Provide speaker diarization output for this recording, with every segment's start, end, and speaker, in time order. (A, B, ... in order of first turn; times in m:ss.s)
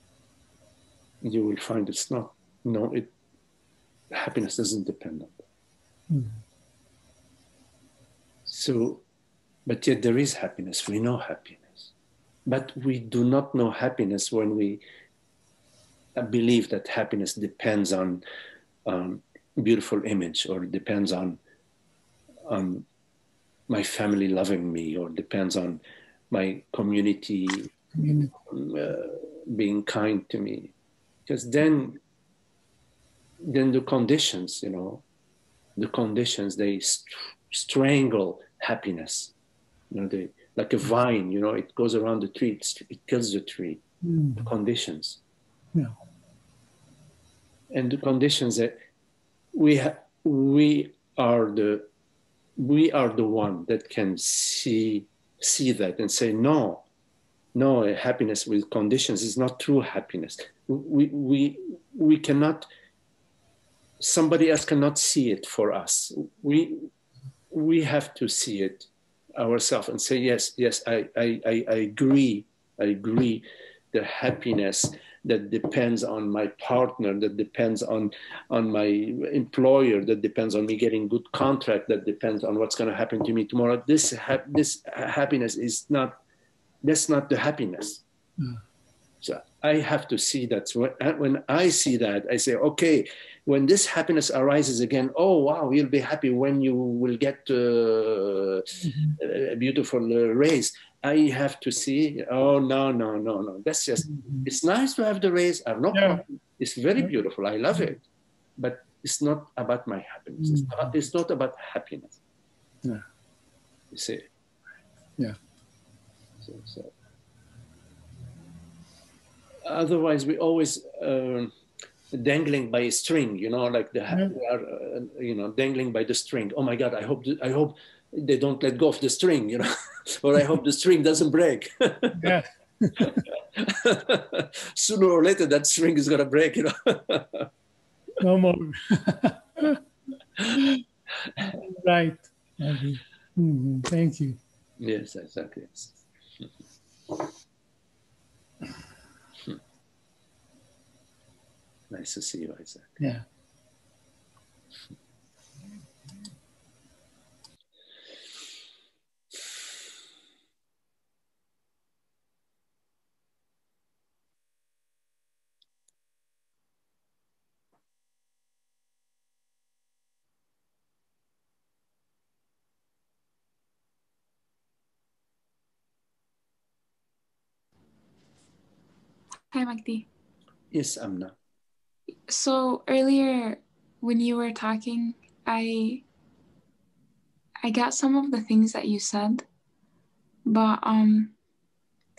0:01.2-0:03.1 A
0:04.1-0:05.4 A
0:06.1-0:06.4 B
0:08.5-0:09.0 A
0:09.7-0:11.9 A
0:12.5-0:14.8 A
0:16.2-0:18.2 A
0:18.9-0:21.4 A
0:22.5-0:22.8 A
0:23.7-0:27.7 A
0:28.0-0:28.3 B
0:28.5-0:30.7 A
0:31.3-0:32.0 A
0:33.4-0:35.0 A
0:35.8-0:39.3 A
0:39.9-0:43.8 A
0:44.0-0:44.5 B
0:44.4-0:45.2 A
0:47.7-0:48.8 A
0:49.5-0:51.9 A
0:52.6-0:56.8 A
0:57.6-1:02.7 A
1:04.0-1:06.9 A
1:07.5-1:26.2 A
1:26.8-1:28.0 A
1:29.2-1:48.0 A
1:38.8-1:39.2 B
1:44.1-1:44.4 B
1:45.9-1:46.2 B
1:48.6-1:52.2 A
1:50.4-1:50.7 B
1:53.9-1:54.3 A
1:56.4-1:56.9 A
1:59.7-2:01.5 A
2:02.1-2:12.3 A
2:12.2-2:13.1 B
2:13.0-2:17.5 A
2:18.2-2:19.8 B
2:20.5-2:20.8 B
2:21.5-2:24.4 B
2:24.8-2:25.9 A
2:31.9-2:33.0 A
2:33.0-2:33.2 B
2:59.5-3:00.1 C
3:00.7-3:01.4 A
3:02.3-3:06.0 C
3:07.6-3:09.4 C
3:10.5-3:11.4 C